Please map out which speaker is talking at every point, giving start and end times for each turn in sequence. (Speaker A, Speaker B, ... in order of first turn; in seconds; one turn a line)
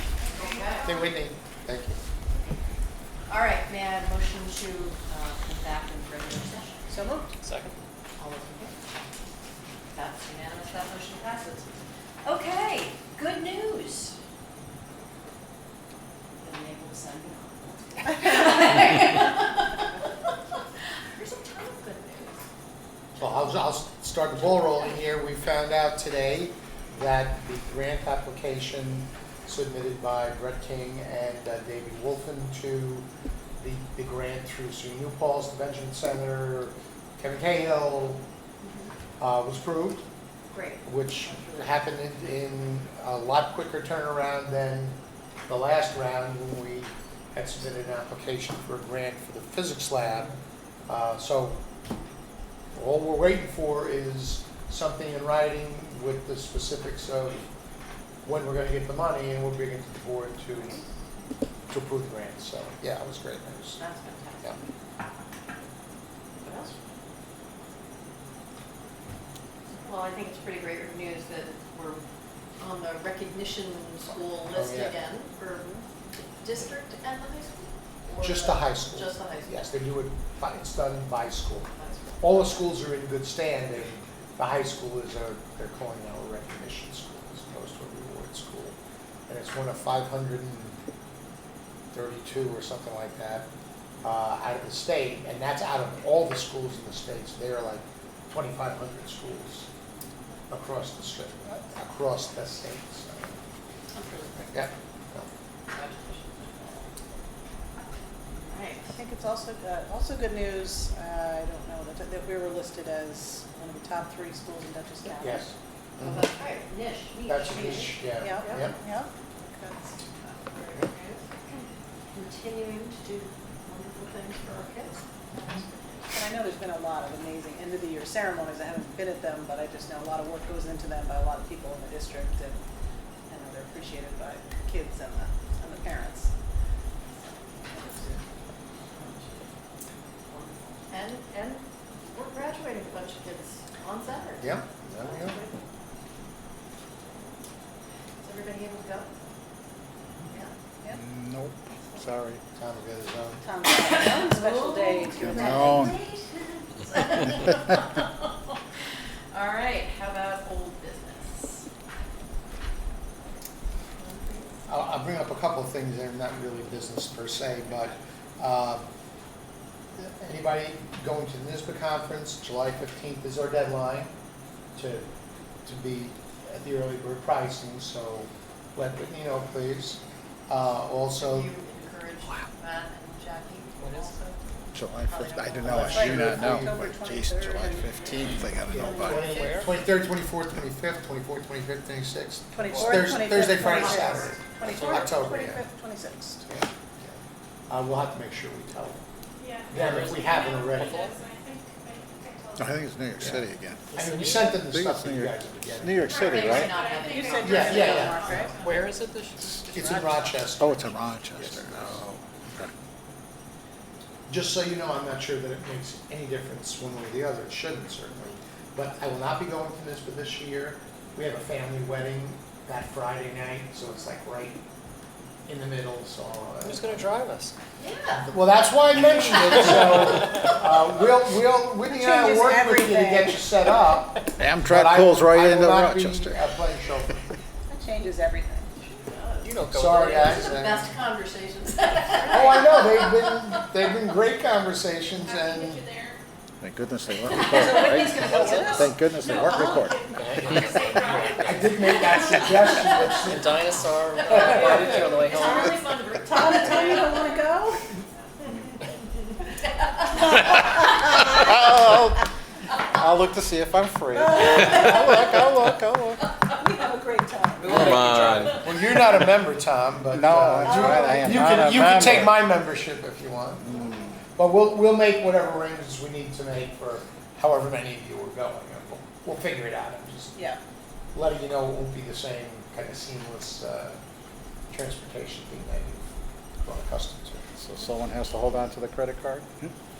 Speaker A: 0.3-0.9
Speaker B: 0.8-2.0
Speaker A: 3.3-7.0
Speaker C: 6.9-7.3
Speaker D: 7.4-7.8
Speaker A: 8.2-8.7
Speaker A: 9.9-14.2
Speaker A: 16.4-19.9
Speaker A: 21.1-22.4
Speaker B: 23.2-33.1
Speaker B: 33.6-38.2
Speaker A: 38.6-38.9
Speaker B: 39.2-40.0
Speaker A: 40.5-41.7
Speaker B: 40.8-50.3
Speaker B: 50.9-51.6
Speaker B: 52.7-57.5
Speaker B: 58.2-60.8
Speaker B: 61.7-63.8
Speaker A: 63.8-64.6
Speaker A: 66.4-66.8
Speaker A: 69.7-72.0
Speaker A: 72.6-75.8
Speaker B: 74.1-75.0
Speaker A: 76.4-79.6
Speaker B: 78.2-88.8
Speaker A: 81.7-82.6
Speaker B: 89.3-90.8
Speaker B: 91.9-93.5
Speaker B: 94.0-99.7
Speaker B: 100.5-103.4
Speaker A: 103.9-104.7
Speaker B: 104.5-105.3
Speaker A: 105.7-106.9
Speaker A: 108.3-109.0
Speaker C: 109.0-115.5
Speaker B: 115.0-116.2
Speaker A: 116.0-118.5
Speaker B: 117.2-118.8
Speaker C: 117.6-120.0
Speaker A: 120.3-126.0
Speaker C: 126.1-132.6
Speaker C: 133.3-136.3
Speaker C: 137.6-138.2
Speaker A: 137.7-138.1
Speaker A: 138.9-139.5
Speaker A: 140.3-145.6
Speaker B: 144.4-145.4
Speaker A: 148.2-149.1
Speaker E: 150.9-152.4
Speaker B: 152.6-153.4
Speaker C: 153.4-155.7
Speaker A: 153.8-158.6
Speaker E: 155.1-155.9
Speaker A: 159.3-161.7
Speaker A: 164.0-164.5
Speaker B: 164.7-168.9
Speaker B: 169.9-174.1
Speaker B: 174.7-175.1
Speaker B: 175.6-181.5
Speaker A: 181.2-186.3
Speaker D: 183.8-184.2
Speaker E: 184.7-189.3
Speaker B: 185.6-186.8
Speaker C: 185.8-188.1
Speaker B: 188.7-195.6
Speaker C: 188.8-189.4
Speaker D: 189.0-189.8
Speaker C: 192.5-196.4
Speaker D: 192.6-193.1
Speaker A: 193.6-194.3
Speaker D: 194.6-195.1
Speaker B: 196.5-199.0
Speaker F: 199.4-202.9
Speaker B: 199.7-201.0
Speaker D: 199.8-200.2
Speaker D: 200.7-201.1
Speaker E: 202.6-203.8
Speaker B: 203.2-206.3
Speaker D: 203.9-204.5
Speaker E: 204.6-206.8
Speaker F: 206.0-208.8
Speaker A: 206.2-208.4
Speaker C: 207.0-208.6
Speaker B: 207.4-208.6
Speaker D: 208.5-210.4
Speaker B: 209.7-212.0
Speaker E: 210.6-212.0
Speaker D: 211.7-212.1
Speaker B: 214.3-224.6
Speaker B: 225.5-227.2
Speaker D: 226.6-227.5
Speaker A: 227.8-228.3
Speaker B: 228.1-237.2
Speaker C: 231.9-233.5
Speaker E: 234.4-236.5
Speaker C: 237.7-238.7
Speaker A: 238.8-243.2
Speaker D: 239.4-240.6
Speaker B: 239.7-240.9
Speaker D: 242.2-242.6
Speaker B: 242.3-245.9
Speaker F: 245.2-246.2
Speaker E: 246.6-250.1
Speaker C: 247.4-248.9
Speaker D: 248.2-248.8
Speaker F: 249.2-253.6
Speaker D: 250.1-251.7
Speaker B: 251.4-255.0
Speaker D: 253.1-255.9
Speaker F: 254.1-258.9
Speaker A: 255.2-255.5
Speaker C: 255.3-257.9
Speaker A: 256.7-257.0
Speaker E: 261.3-262.2
Speaker E: 262.9-266.2
Speaker C: 264.1-265.3
Speaker C: 266.5-268.5
Speaker D: 267.6-268.6
Speaker B: 268.4-273.7
Speaker E: 270.1-272.4
Speaker C: 270.6-271.6
Speaker E: 273.7-274.1
Speaker B: 274.3-280.4
Speaker B: 281.1-284.0
Speaker B: 284.7-286.1
Speaker B: 286.6-287.4
Speaker E: 287.6-289.7